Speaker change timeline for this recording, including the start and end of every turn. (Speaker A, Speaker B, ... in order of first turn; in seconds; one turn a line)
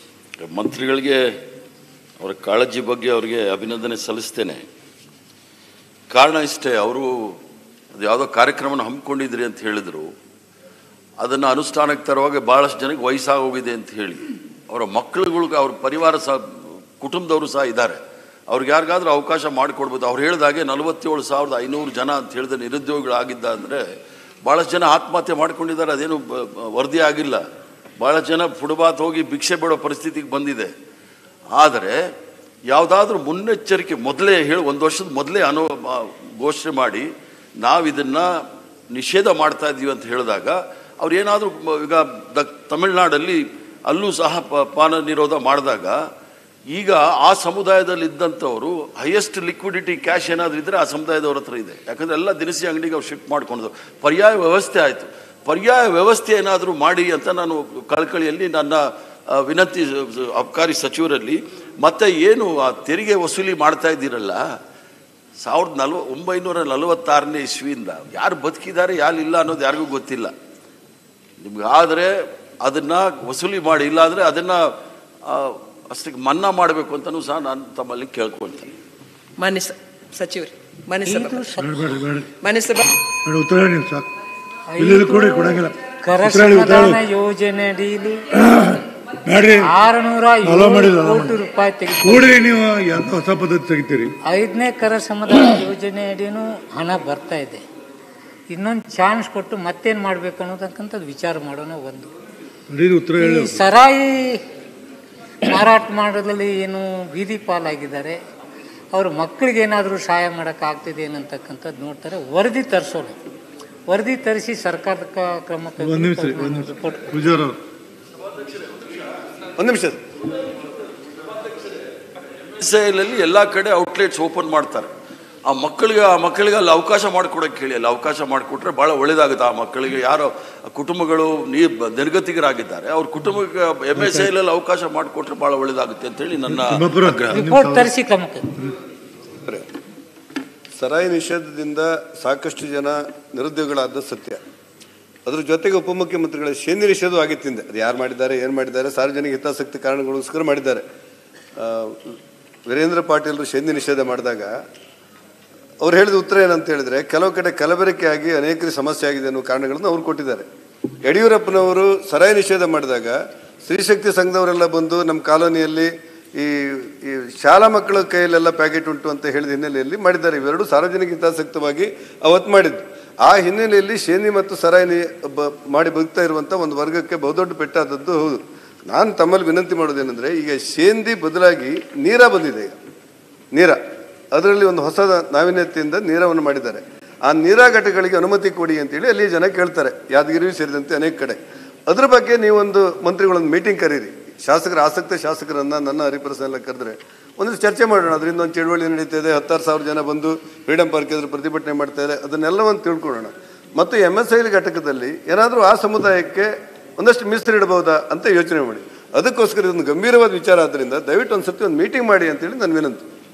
Speaker A: 0.5-1.3
Speaker A: 2.2-4.7
Speaker A: 6.1-7.4
Speaker A: 8.0-10.1
Speaker A: 11.2-23.9
Speaker A: 24.4-27.4
Speaker A: 28.0-30.7
Speaker A: 31.5-32.0
Speaker A: 32.7-37.1
Speaker A: 37.6-38.3
Speaker A: 38.9-46.0
Speaker A: 46.7-64.4
Speaker A: 65.4-70.3
Speaker A: 71.4-74.8
Speaker A: 75.3-78.7
Speaker B: 79.4-81.5
Speaker C: 81.0-81.7
Speaker D: 81.6-82.3
Speaker B: 82.4-82.9
Speaker D: 83.2-84.1
Speaker C: 84.7-88.2
Speaker D: 84.8-87.0
Speaker D: 88.4-89.7
Speaker C: 89.6-92.3
Speaker D: 90.4-91.4
Speaker D: 92.0-94.2
Speaker C: 94.3-97.6
Speaker C: 98.5-102.1
Speaker D: 102.7-103.7
Speaker C: 103.2-104.4
Speaker C: 105.5-108.2
Speaker C: 108.9-113.2
Speaker C: 113.9-117.2
Speaker D: 115.8-117.6
Speaker E: 119.6-120.0
Speaker A: 122.6-124.9
Speaker A: 125.5-137.4
Speaker D: 133.9-134.3
Speaker D: 136.5-137.9
Speaker C: 137.3-138.4
Speaker E: 140.8-144.4
Speaker E: 145.3-150.8
Speaker E: 151.6-152.2
Speaker E: 152.7-154.5
Speaker E: 155.8-160.5
Speaker E: 161.0-182.8
Speaker E: 183.5-183.8
Speaker E: 184.3-213.1